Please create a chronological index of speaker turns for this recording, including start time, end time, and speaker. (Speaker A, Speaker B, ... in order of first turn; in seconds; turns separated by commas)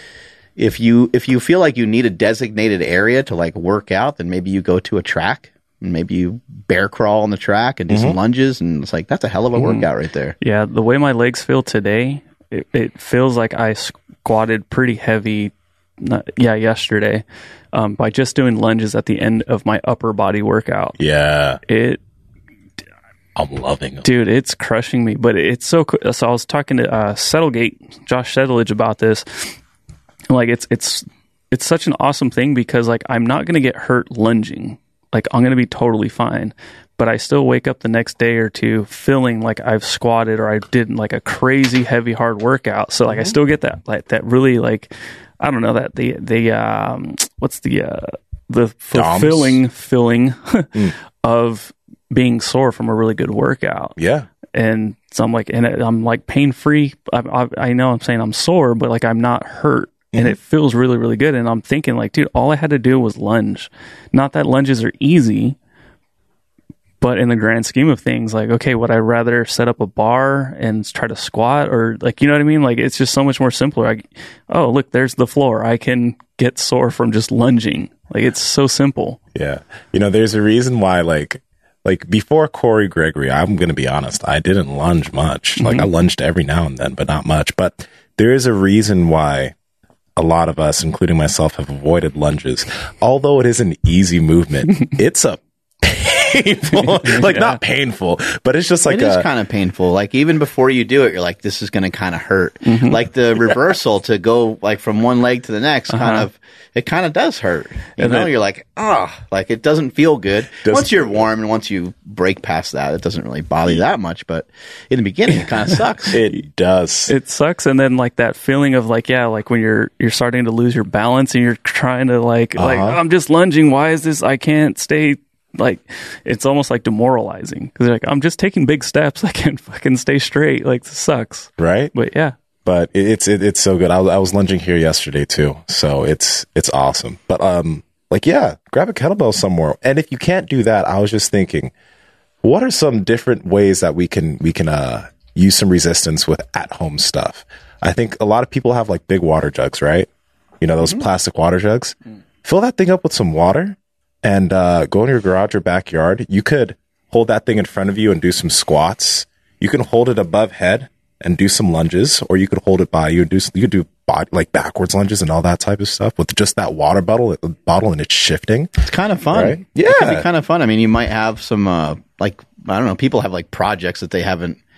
Speaker A: 0.6-10.3, Speaker B: 7.9-8.2, Speaker C: 9.5-9.9, Speaker C: 10.4-21.0, Speaker B: 21.0-21.6, Speaker C: 21.6-22.0, Speaker B: 23.4-24.1, Speaker C: 24.0-29.5, Speaker C: 30.3-53.9, Speaker B: 48.9-49.6, Speaker B: 54.0-54.3, Speaker C: 54.5-65.6, Speaker C: 67.0-79.2, Speaker B: 79.3-89.5, Speaker C: 85.6-85.9, Speaker B: 90.2-99.2, Speaker C: 96.8-97.6, Speaker A: 98.9-116.2, Speaker C: 102.6-103.0, Speaker C: 105.9-106.3, Speaker C: 108.0-108.3, Speaker B: 110.6-111.2, Speaker B: 116.1-117.1, Speaker C: 117.1-132.3, Speaker B: 122.5-123.0, Speaker B: 131.6-131.9, Speaker B: 132.6-141.7, Speaker B: 142.4-150.1, Speaker B: 150.6-168.7, Speaker A: 168.8-174.6, Speaker B: 169.3-170.3